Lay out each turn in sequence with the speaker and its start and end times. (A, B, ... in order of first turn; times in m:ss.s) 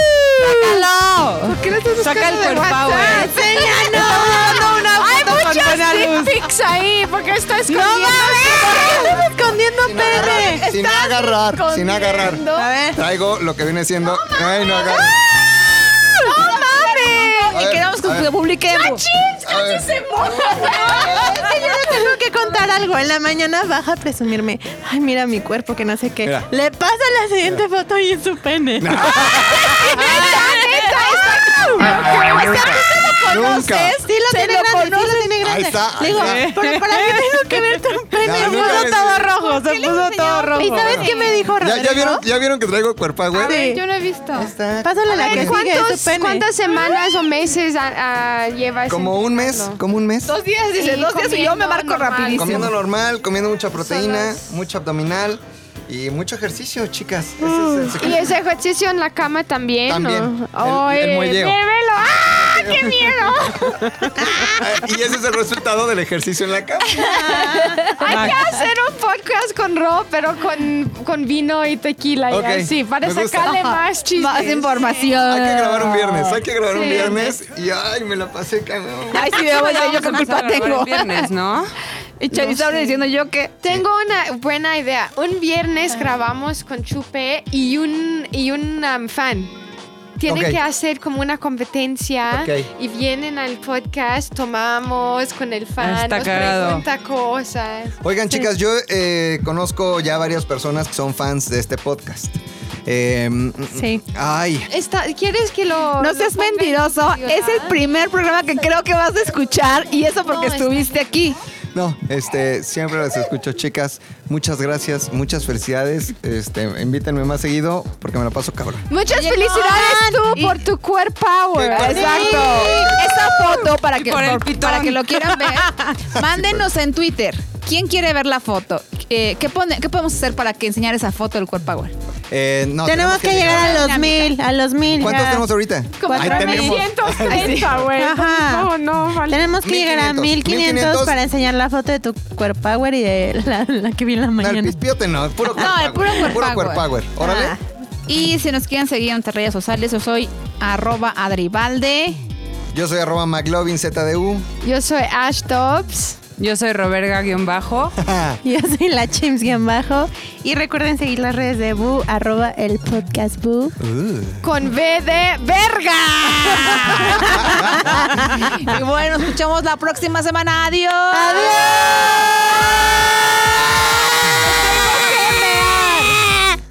0:00.2-0:00.8 A
0:00.4-0:03.3 B
0:01.4-0:09.2 C
0:03.0-0:05.3 D
0:03.1-0:05.6 A
0:04.4-0:06.3 B
0:07.7-0:09.4 A
0:08.0-0:10.6 D
0:09.8-0:15.1 E
0:09.9-0:12.7 A
0:12.6-0:13.0 D
0:14.2-0:15.3 C
0:15.4-0:19.0 A
0:16.2-0:17.6 C
0:17.5-0:18.3 E
0:18.7-0:22.0 C
0:19.4-0:21.5 E
0:20.4-0:21.2 A
0:21.1-0:31.8 D
0:26.2-0:26.5 E
0:28.8-0:29.9 E
0:29.1-0:35.4 A
0:30.0-0:30.3 B
0:31.8-0:34.0 E
0:34.0-0:39.7 D
0:35.4-0:36.4 E
0:36.1-0:37.8 B
0:38.2-0:39.3 E
0:38.2-0:41.5 A
0:39.3-0:41.1 B
0:40.6-0:42.2 D
0:41.6-0:43.6 E
0:43.3-0:44.5 A
0:43.4-0:43.8 D
0:44.3-0:45.6 E
0:44.8-0:46.5 D
0:45.2-0:49.8 C
0:48.9-0:50.3 E
0:50.3-0:52.8 A
0:50.8-0:52.8 C
0:52.3-0:58.4 E
0:53.8-0:54.4 C
0:57.5-1:04.7 C
0:59.9-1:01.6 E
1:02.2-1:03.1 E
1:04.5-1:07.2 E
1:07.0-1:15.2 C
1:07.1-1:08.4 A
1:07.4-1:07.8 D
1:08.0-1:08.4 B
1:12.3-1:13.7 E
1:13.5-1:16.4 A
1:15.3-1:19.4 E
1:16.6-1:17.4 C
1:19.1-1:21.3 A
1:19.4-1:21.7 B
1:22.2-1:23.6 A
1:23.6-1:29.5 C
1:30.2-1:38.0 C
1:30.3-1:30.6 E
1:32.3-1:32.7 E
1:35.8-1:36.8 B
1:38.0-1:44.7 E
1:43.7-1:44.0 D
1:44.7-1:47.8 C
1:46.0-1:51.4 A
1:50.2-1:50.9 C
1:51.7-1:58.9 E
1:58.9-2:03.0 C
1:59.1-2:00.7 A
2:01.6-2:03.3 E
2:01.7-2:11.9 A
2:03.9-2:05.6 B
2:06.1-2:06.6 E
2:12.3-2:13.9 E
2:12.8-2:15.4 D
2:13.4-2:14.4 A
2:15.0-2:17.8 E
2:16.0-2:19.5 C
2:16.0-2:16.8 D
2:17.3-2:17.8 A
2:17.9-2:18.7 D
2:19.2-2:24.8 D
2:19.6-2:21.2 E
2:24.4-2:27.6 E
2:25.5-2:26.9 A
2:27.2-2:27.6 D
2:28.1-2:32.2 A
2:32.7-2:34.5 E
2:34.6-2:36.2 C
2:36.4-2:38.0 B
2:38.0-2:38.4 E
2:38.4-2:43.8 D
2:43.8-2:44.4 E
2:44.4-2:47.2 C
2:47.0-2:47.5 D
2:47.4-2:47.8 E
2:48.2-2:52.0 A
2:51.1-2:52.3 D
2:54.4-2:56.2 A